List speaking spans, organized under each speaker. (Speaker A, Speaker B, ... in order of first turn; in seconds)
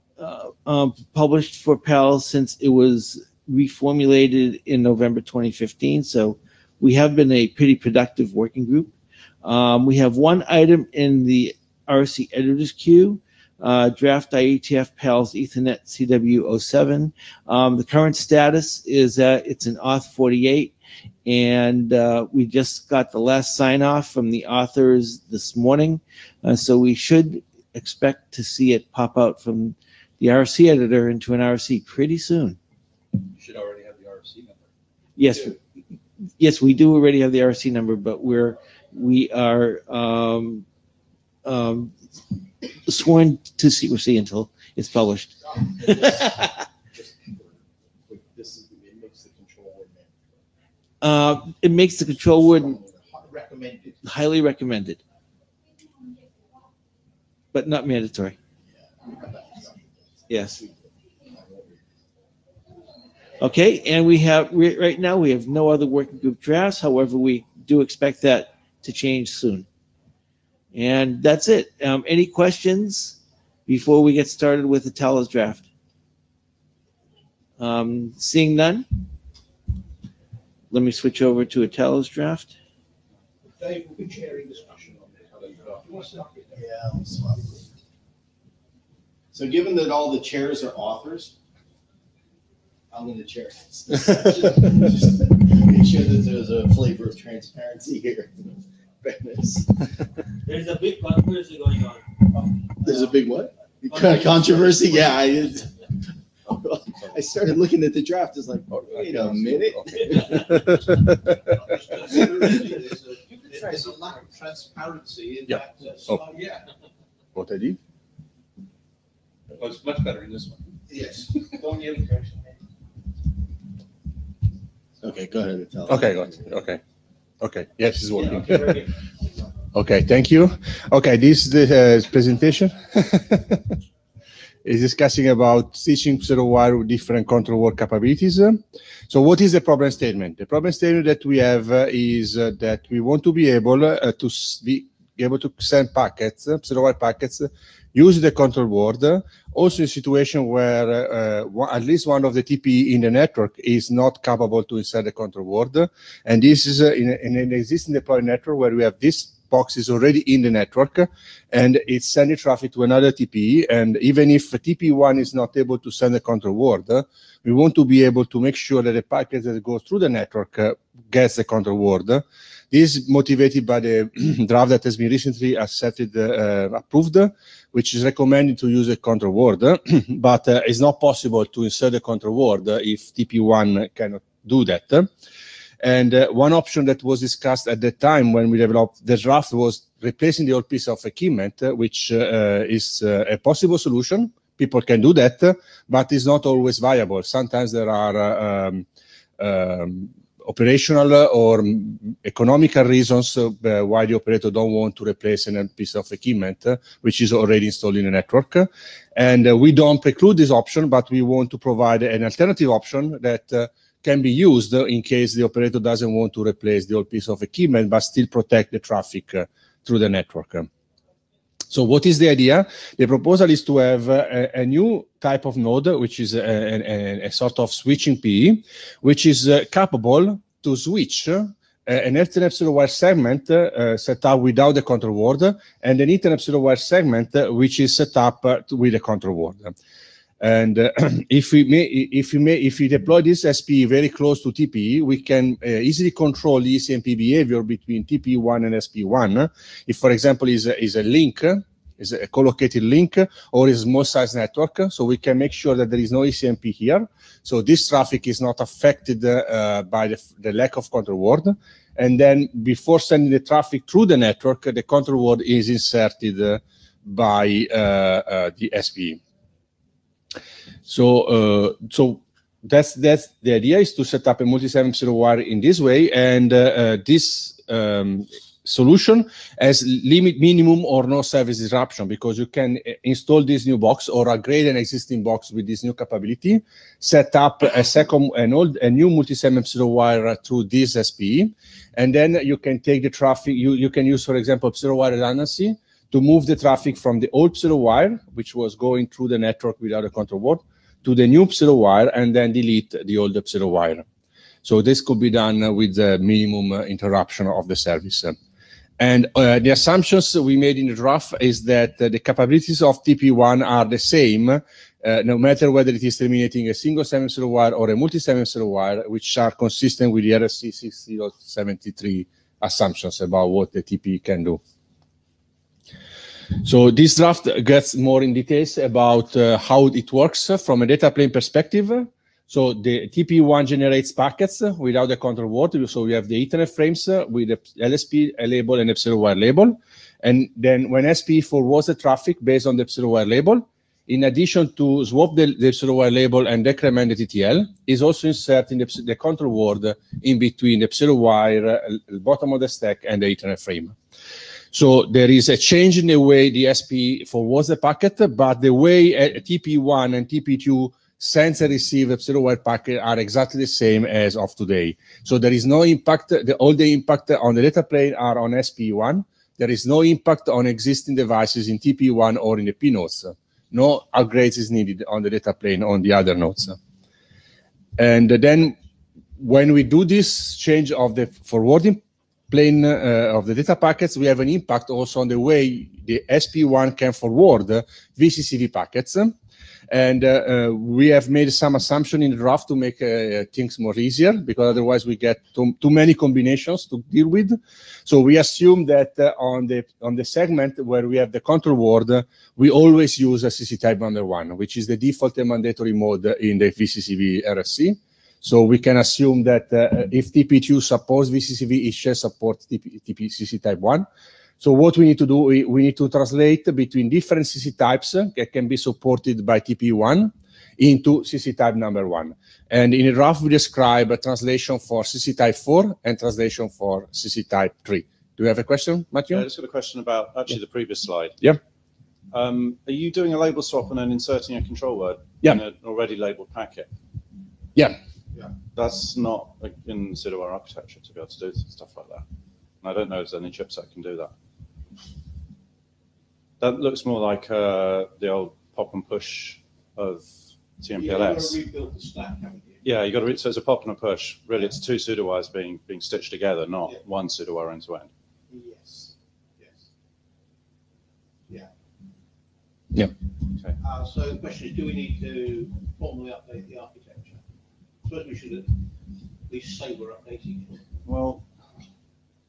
Speaker A: 0.2-32.6, 35.2-35.6, 36.4-40.6, 41.4-42.0, 42.9-46.6, 51.0-52.8, 54.0-55.0, 57.5-58.4, 60.3-60.6, 63.4-69.7, 70.7-75.7, 77.6-78.9, 80.7-82.5
Speaker B: 33.3-34.7, 119.5-120.7
Speaker C: 45.8-50.4, 52.5-53.2, 58.7-61.9, 86.5-87.6, 89.3-91.3, 92.9-99.9, 102.8-105.8, 106.5-110.6, 125.0-126.5
Speaker D: 53.2-54.0, 83.5-86.7, 110.2-116.7, 120.9-122.3, 128.2-128.9, 450.9-452.9, 458.5-459.8, 463.8-467.4, 468.1-468.8, 469.5-470.9
Speaker E: 100.4-103.2, 103.9-105.3
Speaker F: 108.9-109.7, 117.3-117.8, 125.9-126.8, 127.4-128.9, 129.7-133.7, 134.6-185.1, 185.8-198.9, 199.4-220.7, 221.7-239.8, 240.4-269.2, 270.9-304.1, 304.6-308.4, 309.0-324.6, 326.6-353.9, 354.7-376.8, 378.0-378.8, 379.4-389.4, 389.9-414.1, 414.6-429.5
Speaker G: 429.3-431.4, 432.3-436.9, 438.7-442.2, 442.8-444.3, 446.6-451.6, 452.8-458.1, 471.1-471.4